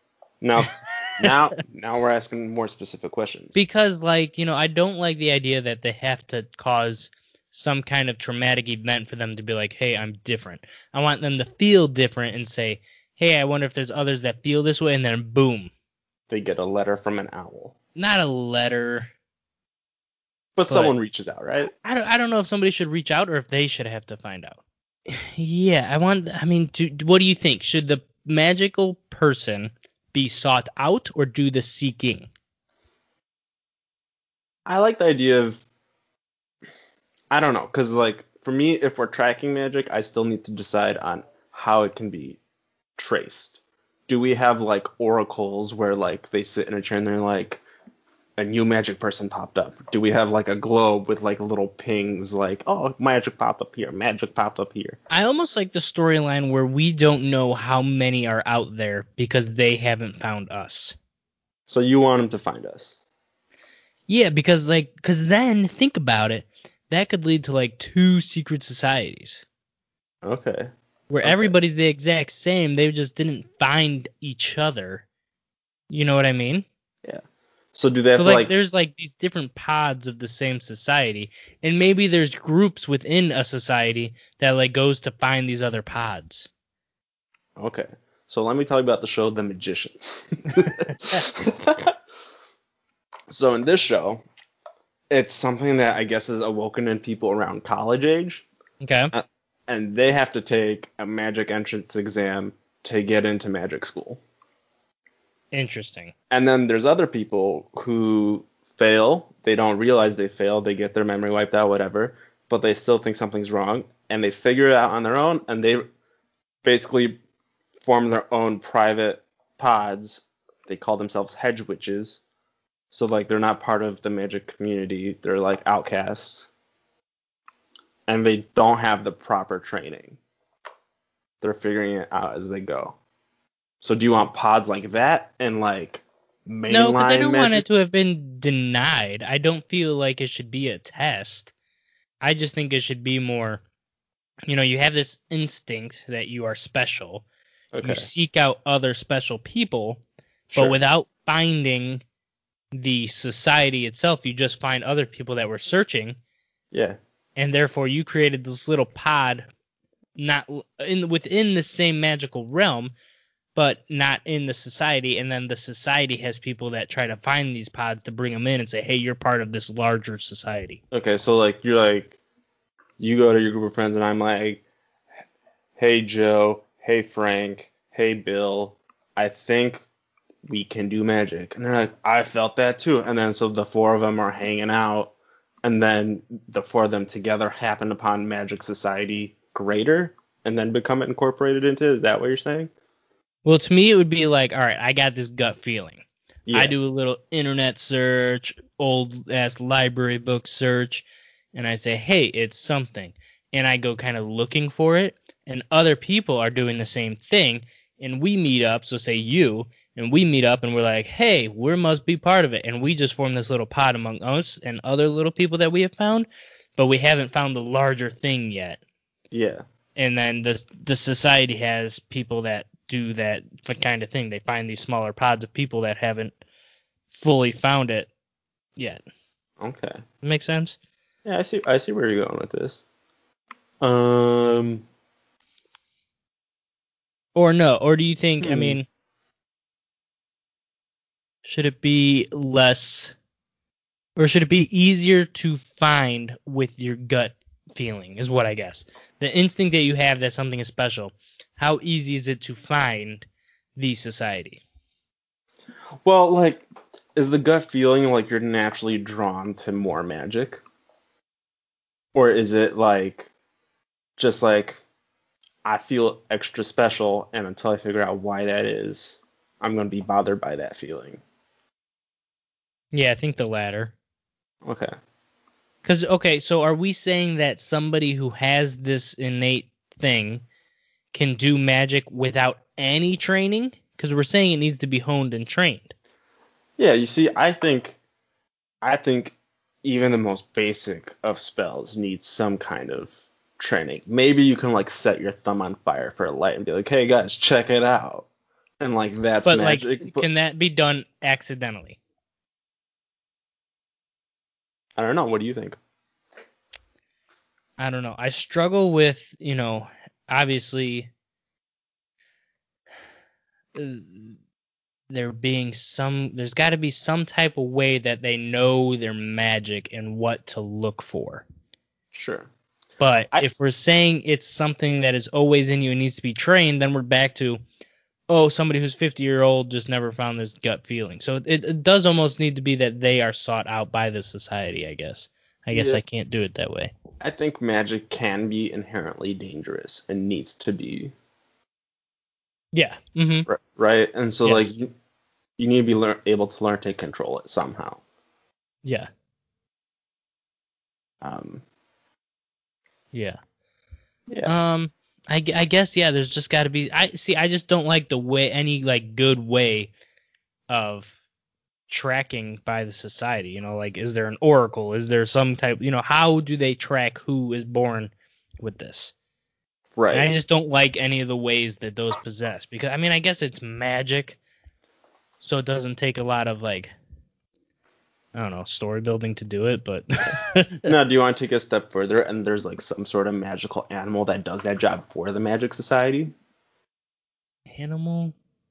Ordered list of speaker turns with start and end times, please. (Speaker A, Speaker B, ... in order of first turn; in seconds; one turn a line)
Speaker A: 0.4-3.6
Speaker B: 3.5-15.7
Speaker A: 16.3-17.7
Speaker B: 17.9-19.1
Speaker A: 20.6-21.7
Speaker B: 20.7-20.9
Speaker B: 21.6-32.3
Speaker A: 34.6-35.6
Speaker A: 37.3-42.4
Speaker A: 43.0-47.6
Speaker A: 48.4-55.0
Speaker B: 55.1-60.9
Speaker A: 61.7-63.0
Speaker B: 64.1-69.4
Speaker A: 70.2-70.7
Speaker B: 71.1-75.0
Speaker A: 71.2-71.5
Speaker B: 75.9-76.6
Speaker A: 77.7-78.5
Speaker B: 78.1-86.5
Speaker A: 87.6-91.9
Speaker B: 90.6-91.2
Speaker A: 93.3-94.2
Speaker A: 95.1-98.4
Speaker B: 98.8-99.1
Speaker A: 99.1-104.2
Speaker B: 105.5-106.1
Speaker A: 106.3-115.8
Speaker A: 116.6-117.2
Speaker A: 117.8-122.2
Speaker A: 122.9-126.5
Speaker A: 128.1-130.2
Speaker A: 131.4-132.9
Speaker A: 133.8-137.6
Speaker B: 136.7-141.5
Speaker B: 142.2-143.6
Speaker B: 144.5-147.2
Speaker A: 147.7-148.1
Speaker B: 147.8-152.0
Speaker A: 150.5-150.8
Speaker B: 152.7-156.2
Speaker A: 156.7-157.0
Speaker B: 157.3-159.5
Speaker B: 160.2-162.9
Speaker B: 163.5-170.8
Speaker A: 170.9-172.2
Speaker A: 173.0-174.6
Speaker A: 175.8-179.8
Speaker A: 180.4-192.7
Speaker B: 193.4-218.8
Speaker A: 196.5-196.7
Speaker A: 219.3-219.6
Speaker B: 219.9-226.3
Speaker B: 227.1-228.1
Speaker A: 229.6-230.0
Speaker B: 230.2-230.8
Speaker A: 231.2-232.8
Speaker A: 233.8-234.8
Speaker B: 237.3-238.8
Speaker A: 238.4-238.8
Speaker B: 241.4-243.1
Speaker B: 244.2-254.6
Speaker A: 256.0-260.6
Speaker A: 262.1-263.3
Speaker A: 264.2-264.8
Speaker A: 265.6-271.2
Speaker B: 272.9-273.9
Speaker A: 274.6-274.9
Speaker B: 275.8-280.4
Speaker B: 281.1-285.9
Speaker A: 286.8-288.0
Speaker A: 288.8-298.3
Speaker A: 298.8-300.2
Speaker B: 299.4-302.0
Speaker A: 305.0-305.8
Speaker B: 307.8-311.1
Speaker B: 313.7-314.4
Speaker B: 315.1-321.4
Speaker A: 322.1-322.5
Speaker B: 323.0-327.6
Speaker B: 328.3-336.9
Speaker A: 335.7-336.0
Speaker A: 337.2-341.1
Speaker B: 342.7-343.5
Speaker A: 343.5-344.9
Speaker A: 345.6-348.0
Speaker B: 348.8-349.1
Speaker A: 351.2-351.6
Speaker B: 353.1-353.4
Speaker B: 354.4-359.9
Speaker B: 360.7-361.1
Speaker B: 361.9-369.1
Speaker A: 369.9-370.3
Speaker B: 370.1-374.4
Speaker B: 375.4-376.9
Speaker B: 378.3-380.9
Speaker A: 380.8-386.3
Speaker B: 387.7-388.3